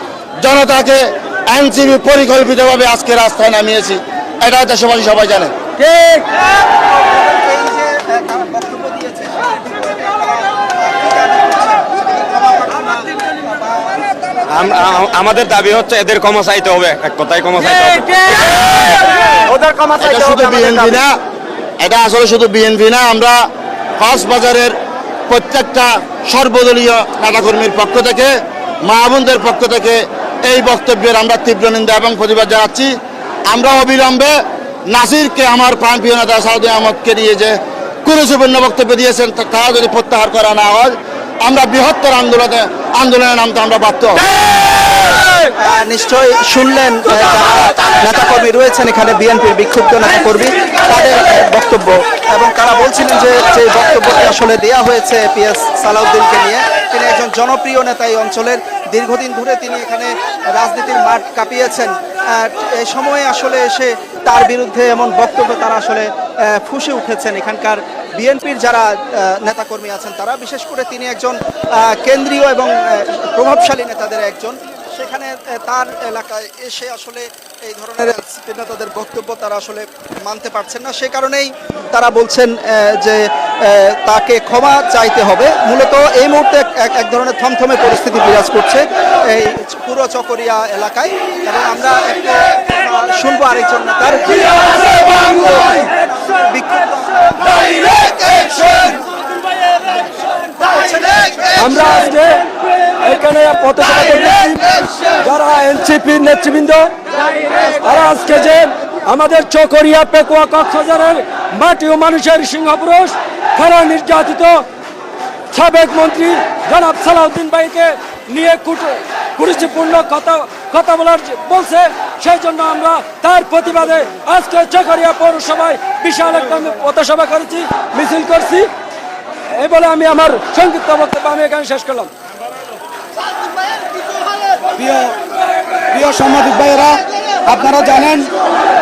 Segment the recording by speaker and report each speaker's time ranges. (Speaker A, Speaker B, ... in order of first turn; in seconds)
Speaker A: 0.4-5.6, 20.0-21.1, 21.8-23.5, 24.0-24.8, 25.3-28.3, 28.9-32.9, 33.5-34.4, 34.9-44.2
Speaker B: 5.8-14.1, 45.6-99.0, 100.7-101.4
Speaker C: 14.5-21.0
Speaker D: 101.6-102.5, 103.0-114.7, 115.5-128.7, 129.6-132.1
Speaker E: 134.8-135.2, 135.9-138.3